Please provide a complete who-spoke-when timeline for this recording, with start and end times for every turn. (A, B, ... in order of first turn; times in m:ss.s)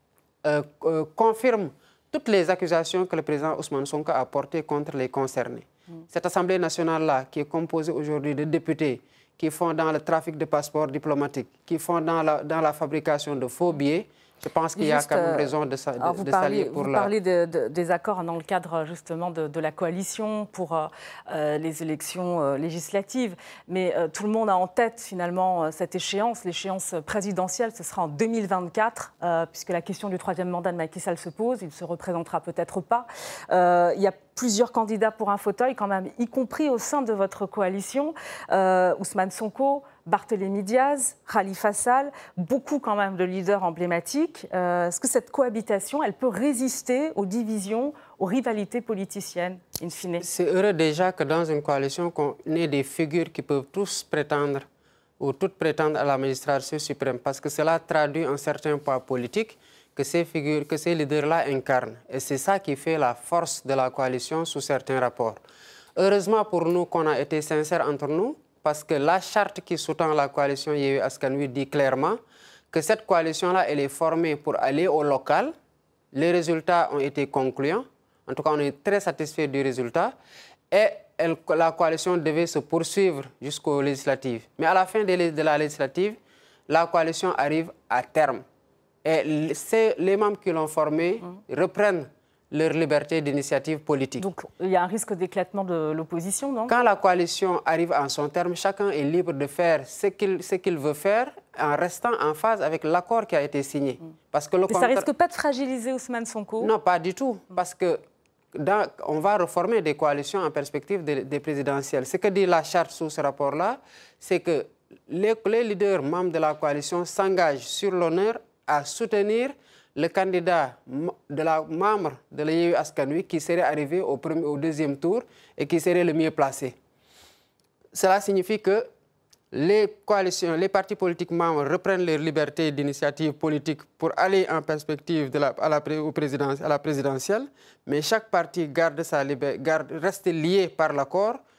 0:00.4-0:17.1 A
0:14.8-0:50.3 B
0:50.2-0:54.7 A
0:55.2-1:05.4 A
1:06.0-1:12.2 A
1:12.7-1:15.5 A
1:16.1-1:20.2 A
1:20.7-1:28.4 A
1:29.0-1:34.2 A
1:34.2-1:36.7 B
1:36.7-1:45.1 A
1:44.7-1:46.7 B
1:46.6-1:48.0 A
1:48.5-2:06.8 A
2:07.9-2:08.9 A
2:09.5-2:21.4 A